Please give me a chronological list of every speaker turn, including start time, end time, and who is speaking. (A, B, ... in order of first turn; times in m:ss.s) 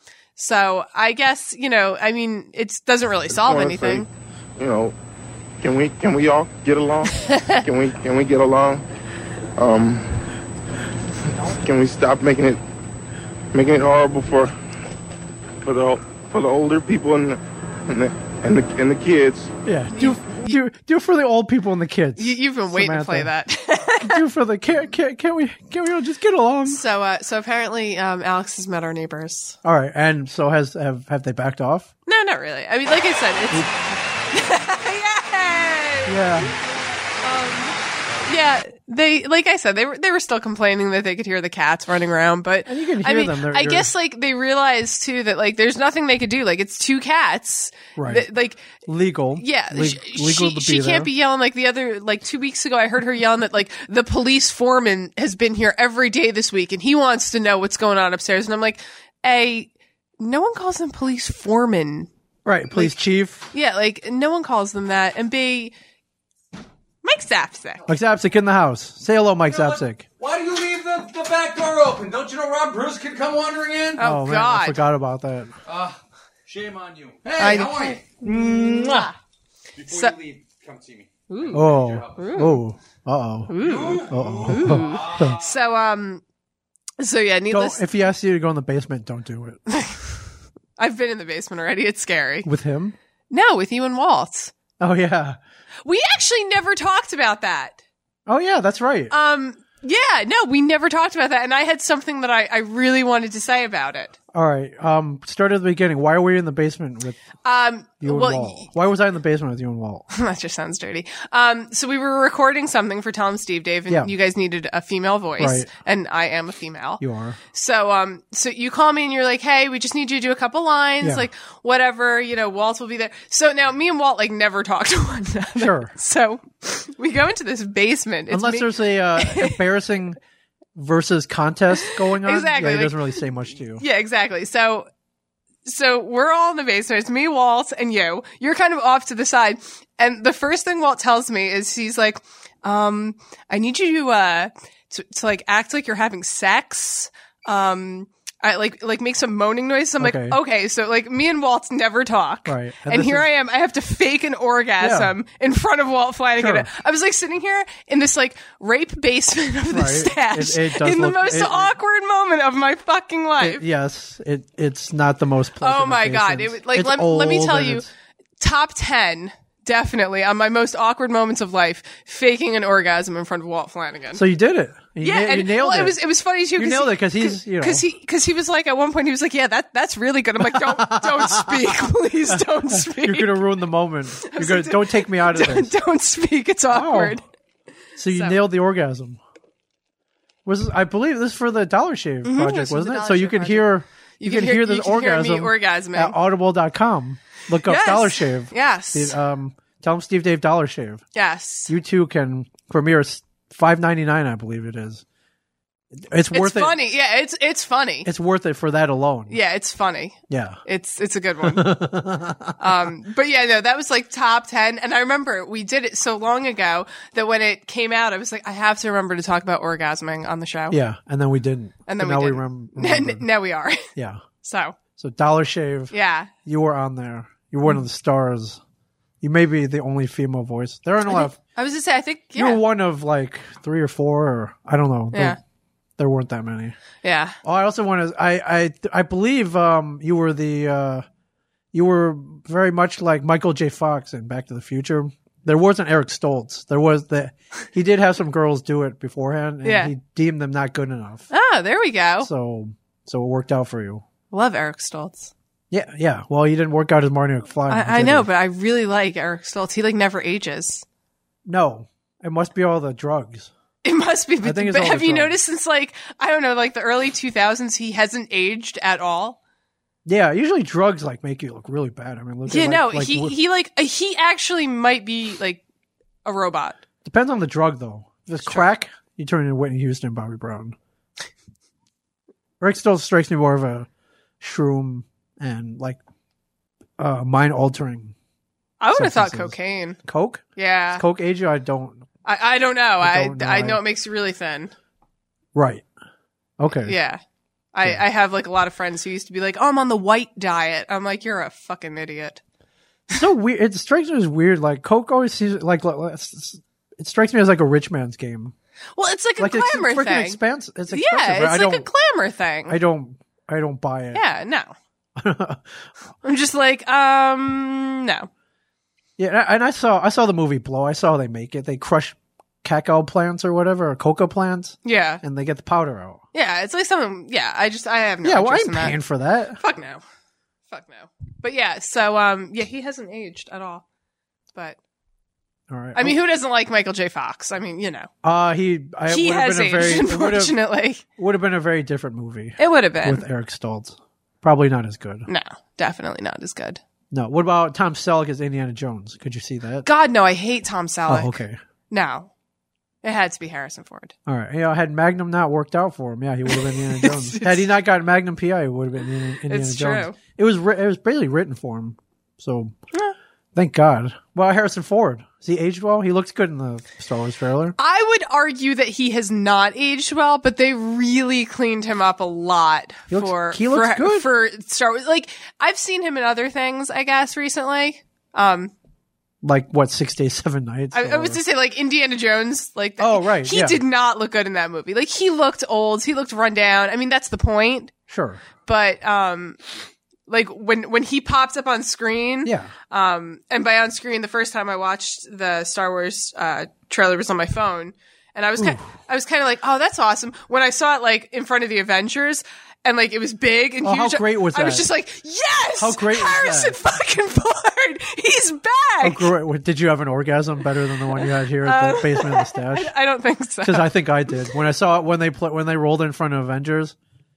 0:00.4-0:04.1 A
0:03.3-0:04.1 B
0:04.6-0:04.9 B
0:05.6-0:08.8 B
0:07.2-0:07.6 A
0:09.6-0:10.1 B
0:11.6-0:12.6 B
0:13.5-0:14.5 B
0:15.6-0:19.5 B
0:19.6-0:23.3 C
0:19.9-0:20.6 A
0:22.2-0:24.2 A
0:24.0-0:26.8 C
0:26.7-0:29.6 A
0:29.6-0:31.9 C
0:32.1-0:36.5 A
0:36.1-0:36.5 C
0:37.2-0:48.7 A
0:42.7-0:43.9 C
0:48.0-0:51.1 C
0:49.4-0:59.7 A
1:00.2-1:02.1 A
1:02.4-1:03.5 C
1:02.7-1:03.0 A
1:03.5-1:05.7 A
1:07.0-1:07.8 A
1:07.9-1:10.1 C
1:09.5-1:14.0 D
1:14.0-1:14.8 A
1:14.0-1:15.5 C
1:15.7-1:19.1 D
1:17.4-1:19.2 A
1:19.8-1:22.3 D
1:19.9-1:20.2 A
1:21.3-1:22.6 A
1:21.5-1:25.4 C
1:23.5-1:26.2 A
1:23.6-1:25.5 D
1:27.0-1:27.8 A
1:27.5-1:29.6 C
1:29.7-1:30.1 A
1:30.8-1:32.5 A
1:32.4-1:33.0 C
1:33.3-1:34.5 A
1:34.8-1:35.4 C
1:35.8-1:37.8 A
1:38.3-1:39.1 C
1:39.1-1:44.1 A
1:44.3-1:47.2 C
1:47.4-1:48.7 A
1:48.0-1:50.1 C
1:50.1-1:57.0 A
1:55.4-1:55.7 C
1:57.0-1:57.4 C
1:57.5-2:09.6 A
2:01.0-2:01.3 C
2:05.6-2:05.9 C
2:08.3-2:10.2 C
2:10.8-2:13.8 C
2:11.8-2:13.2 A
2:13.8-2:14.9 A
2:15.7-2:43.6 A
2:30.0-2:30.4 C
2:32.5-2:33.3 C
2:34.8-2:35.1 C
2:36.4-2:36.7 C
2:39.7-2:41.8 C
2:43.4-2:47.9 C
2:45.6-2:47.9 A
2:48.4-2:54.2 A
2:54.1-2:56.0 C
2:55.0-3:03.4 A
2:56.6-2:57.8 C
3:00.4-3:05.7 C
3:04.2-3:07.2 A
3:06.7-3:07.2 C
3:08.0-3:09.2 C
3:08.1-3:08.4 A
3:10.5-3:21.0 C
3:12.2-3:16.2 A
3:17.6-3:19.2 A
3:21.2-3:21.7 A
3:21.7-3:25.0 C
3:25.9-3:26.8 C
3:26.3-3:28.1 A
3:28.0-3:29.4 C
3:29.3-3:31.8 A
3:30.3-3:30.6 C
3:31.4-3:32.7 C
3:32.6-3:40.8 A
3:40.7-3:43.2 C
3:41.9-3:43.9 A
3:44.0-3:44.2 C
3:44.4-3:44.8 A
3:45.0-3:45.9 C
3:45.9-3:46.3 A
3:46.4-3:48.6 C
3:49.2-3:51.4 C
3:51.1-3:52.6 A
3:52.4-3:55.4 C
3:55.1-3:55.4 A
3:56.0-3:56.8 C
3:57.0-3:57.4 A
3:57.4-4:01.0 C
4:01.7-4:11.3 C
4:09.6-4:09.9 A
4:11.3-4:12.3 A
4:12.2-4:14.0 C
4:14.3-4:15.3 A
4:15.7-4:18.3 C
4:17.7-4:20.8 A
4:21.5-4:23.5 C
4:23.8-4:29.4 A
4:24.4-4:25.4 C
4:30.1-4:33.4 C
4:32.5-4:35.6 A
4:36.2-4:36.8 A
4:37.0-4:40.8 C
4:42.6-4:43.9 C
4:44.4-4:46.0 C
4:47.0-4:48.2 C
4:48.8-4:50.0 A
4:48.9-4:50.4 C
4:50.6-4:51.0 A
4:50.9-4:52.0 C
4:52.2-4:54.7 A
4:53.0-4:53.8 C
4:55.6-4:55.9 C
4:56.6-4:56.9 C
4:56.9-4:57.2 A
4:57.7-5:02.4 A
5:03.1-5:08.5 C
5:09.0-5:12.8 A
5:09.4-5:11.9 C
5:12.7-5:14.2 C
5:14.1-5:14.7 A
5:15.2-5:15.8 C
5:16.2-5:18.3 A
5:19.2-5:26.2 C
5:24.8-5:25.2 A
5:26.3-5:29.0 A
5:28.2-5:29.6 C
5:29.6-5:30.0 A
5:30.7-5:33.8 A
5:35.7-5:36.2 C
5:36.0-5:38.1 A
5:38.2-5:40.6 C
5:39.1-5:41.0 A
5:41.1-5:45.3 C
5:42.6-5:43.2 A
5:45.3-5:46.8 A
5:47.1-5:49.9 C
5:49.8-5:51.4 A
5:51.1-5:51.6 C
5:51.9-5:52.3 A
5:53.0-5:54.1 A
5:54.3-6:02.8 C
5:56.5-5:57.6 A
5:59.5-6:00.2 A
6:03.6-6:07.8 C
6:07.8-6:18.7 A
6:13.1-6:14.3 C
6:19.4-6:21.4 C
6:20.9-6:27.9 A
6:23.0-6:23.8 C
6:28.1-6:28.4 C
6:28.6-6:29.6 A
6:30.3-6:49.3 A
6:32.4-6:32.7 C
6:38.6-6:38.9 C
6:43.8-6:44.9 C
6:45.8-6:46.8 C
6:49.0-6:52.9 C
6:51.2-6:53.9 A
6:53.6-6:57.0 C